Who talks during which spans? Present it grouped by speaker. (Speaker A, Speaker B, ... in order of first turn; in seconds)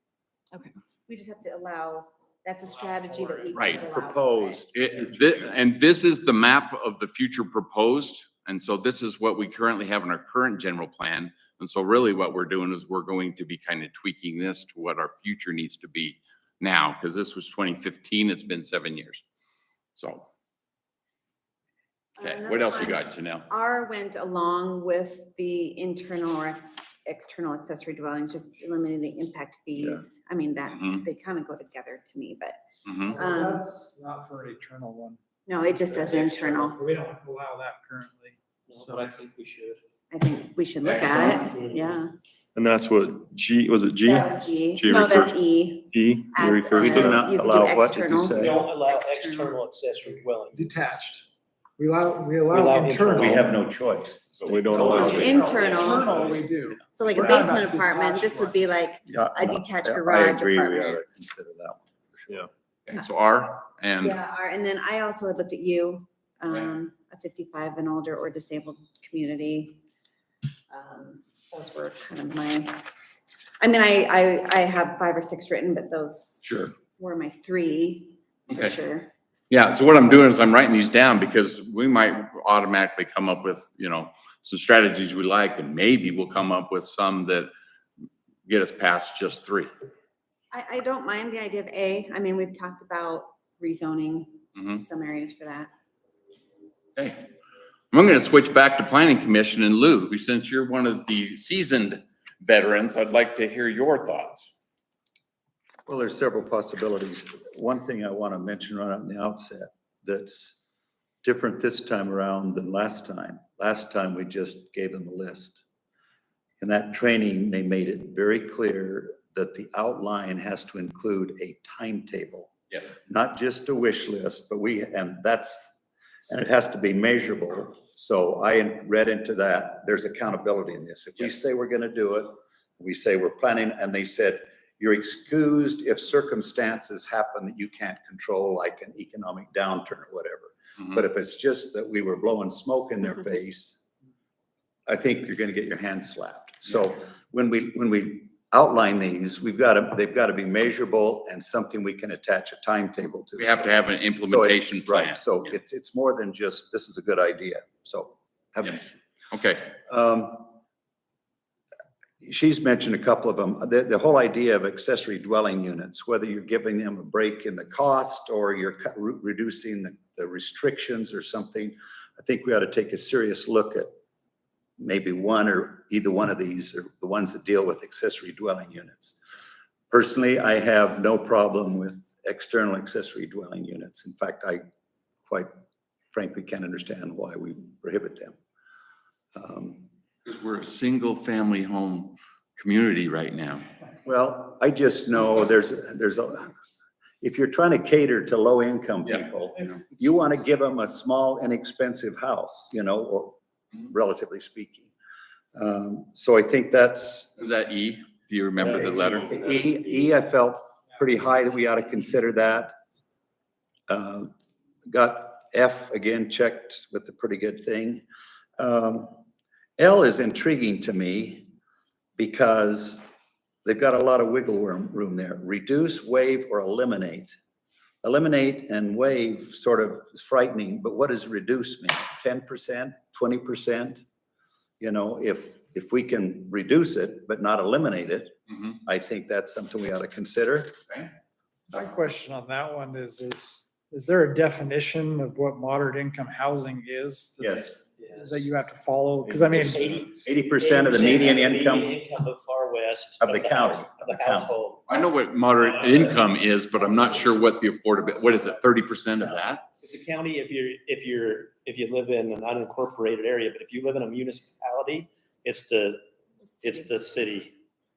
Speaker A: 1.1-4.6, 22.2-32.6, 33.1-33.6, 35.5-36.8, 40.1-42.1, 44.0-49.5, 55.0-56.2, 56.9-61.0, 64.0-69.8, 70.7-72.8, 73.6-76.4, 77.0-79.1, 90.5-95.7
Speaker B: 3.5-3.8, 4.7-19.2, 19.9-20.3, 22.2-23.5, 30.7-31.0, 32.9-33.2, 40.8-41.5, 54.4-55.3, 62.9-64.2, 76.4-76.7, 78.5-78.7, 79.5-87.5, 88.5-89.7, 94.5-94.8, 97.9-104.5, 153.4-155.4, 159.3-159.7, 190.2-193.7, 207.4-209.4, 254.9-259.6
Speaker C: 3.7-5.7, 29.8-30.0, 46.7-48.5, 53.1-55.7, 59.0-62.4, 105.8-110.6, 111.2-115.6, 116.6-122.5, 123.0-125.7, 126.3-143.8, 144.9-159.0, 159.8-160.5, 162.2-173.9, 174.8-179.2, 179.9-184.6, 186.1-188.3, 189.3-189.8, 194.0-196.5, 197.2-204.9, 205.5-207.3, 208.6-212.7, 213.9-214.3, 214.9-218.0, 218.6-219.2, 219.8-221.5, 222.2-223.0, 223.6-227.3, 228.0-234.0, 234.8-238.3, 238.8-240.7, 247.4-247.7, 250.2-251.9, 253.2-254.5
Speaker D: 33.1-39.1, 50.5-51.3, 51.8-53.5, 54.8-58.7, 199.7-200.2, 241.7-250.1
Speaker E: 38.7-39.8, 48.3-50.8, 52.5-53.4, 55.4-56.4, 248.0-248.5, 249.6-254.8, 259.8-266.0, 266.6-267.5
Speaker F: 42.5-45.4, 45.9-47.2, 54.4-55.4, 249.3-249.7